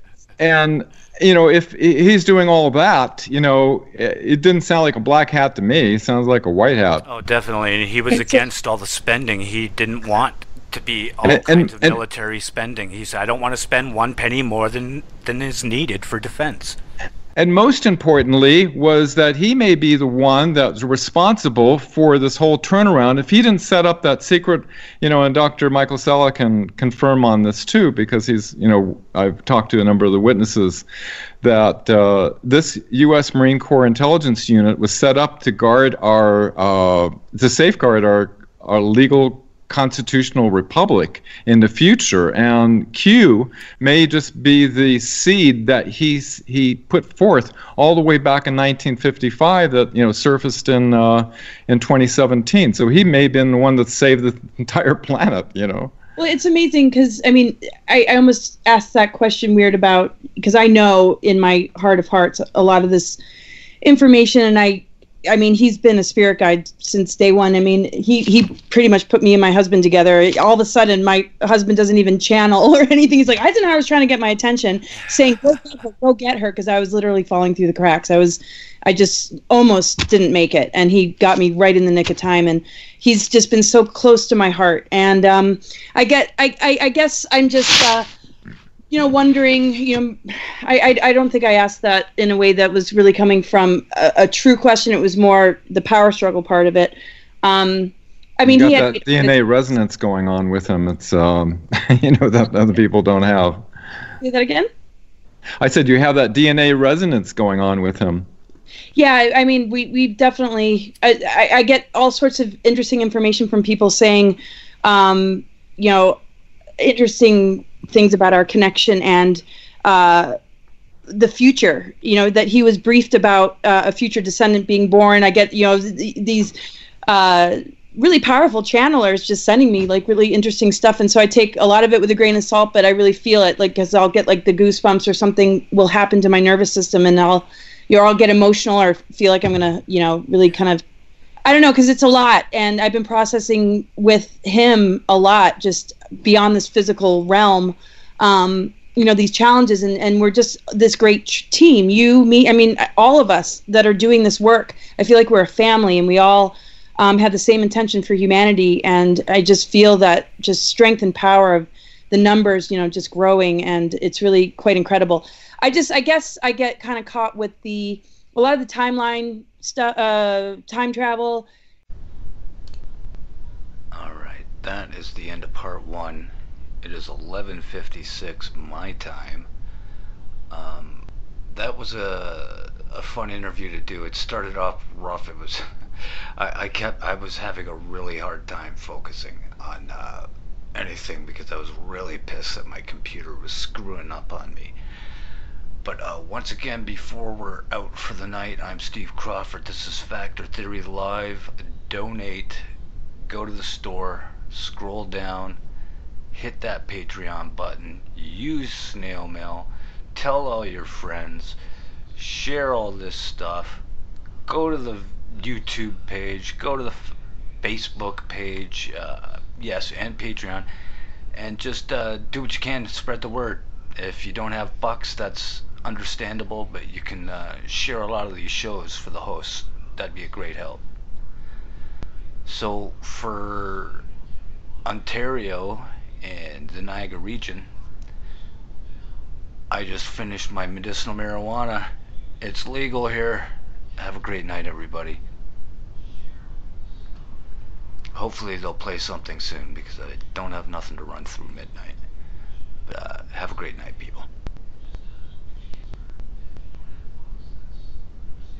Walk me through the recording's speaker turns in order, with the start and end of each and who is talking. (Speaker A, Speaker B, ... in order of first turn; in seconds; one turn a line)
Speaker A: 0.4-7.0
Speaker B: 7.0-16.8
Speaker C: 8.1-8.4
Speaker A: 11.2-12.0
Speaker A: 17.4-30.8
Speaker A: 31.4-55.9
Speaker C: 56.2-63.2
Speaker C: 63.8-88.1
Speaker C: 88.9-99.3
Speaker A: 98.4-103.6
Speaker C: 104.2-104.7
Speaker A: 105.6-108.2
Speaker C: 108.9-116.2
Speaker C: 116.8-120.3
Speaker C: 121.1-126.5
Speaker C: 127.1-140.8
Speaker C: 141.4-171.5
Speaker B: 173.9-176.3
Speaker B: 176.8-179.5
Speaker B: 180.5-185.6
Speaker B: 186.4-194.7
Speaker B: 195.8-202.6
Speaker B: 203.2-205.6
Speaker B: 206.3-211.6
Speaker B: 212.2-213.8
Speaker B: 214.4-217.1
Speaker B: 217.6-220.7
Speaker B: 221.3-230.8
Speaker B: 232.4-234.0
Speaker B: 234.8-237.7
Speaker B: 239.7-241.9
Speaker B: 242.4-245.2
Speaker B: 248.1-252.0
Speaker B: 252.9-254.3